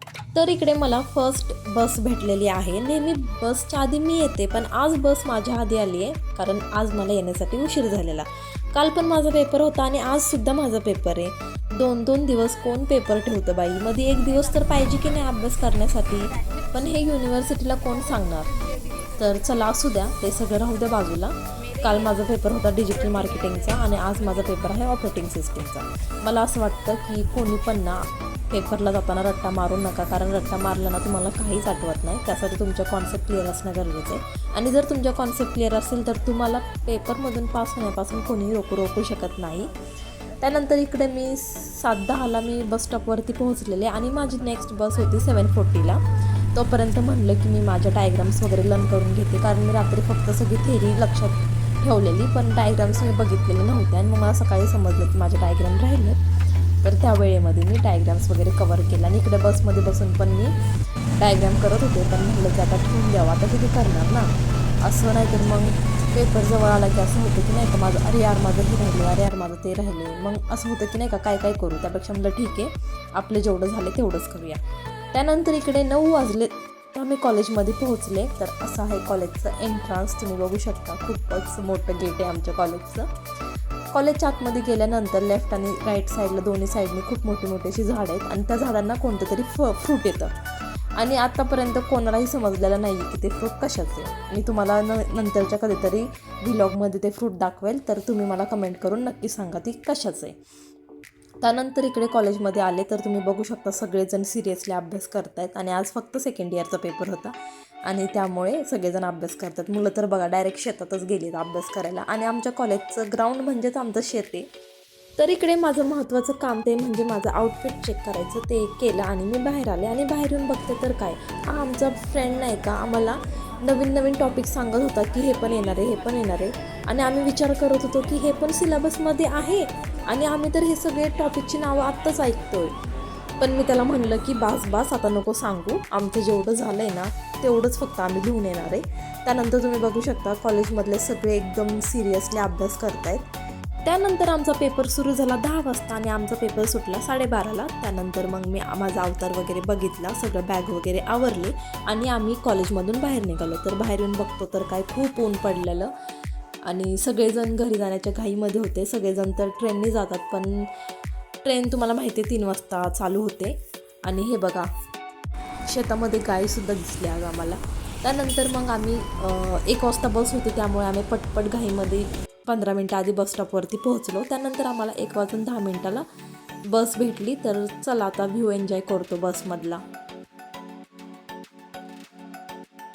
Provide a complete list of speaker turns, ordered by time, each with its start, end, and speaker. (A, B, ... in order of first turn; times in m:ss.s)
0:00.3-0:18.5 A
0:19.2-0:39.7 A
0:40.4-0:46.0 A
0:46.5-0:56.2 A
0:56.8-1:00.6 A
1:01.2-1:04.3 A
1:04.8-1:14.6 A
1:15.1-1:23.1 A
1:23.9-1:30.3 A
1:31.0-1:40.4 A
1:41.4-1:47.3 A
1:47.8-1:54.5 A
1:55.2-2:12.7 A
2:13.4-2:23.3 A
2:23.8-2:35.9 A
2:36.6-2:40.7 A
2:41.4-2:44.7 A
2:45.7-2:56.0 A
2:56.7-2:59.8 A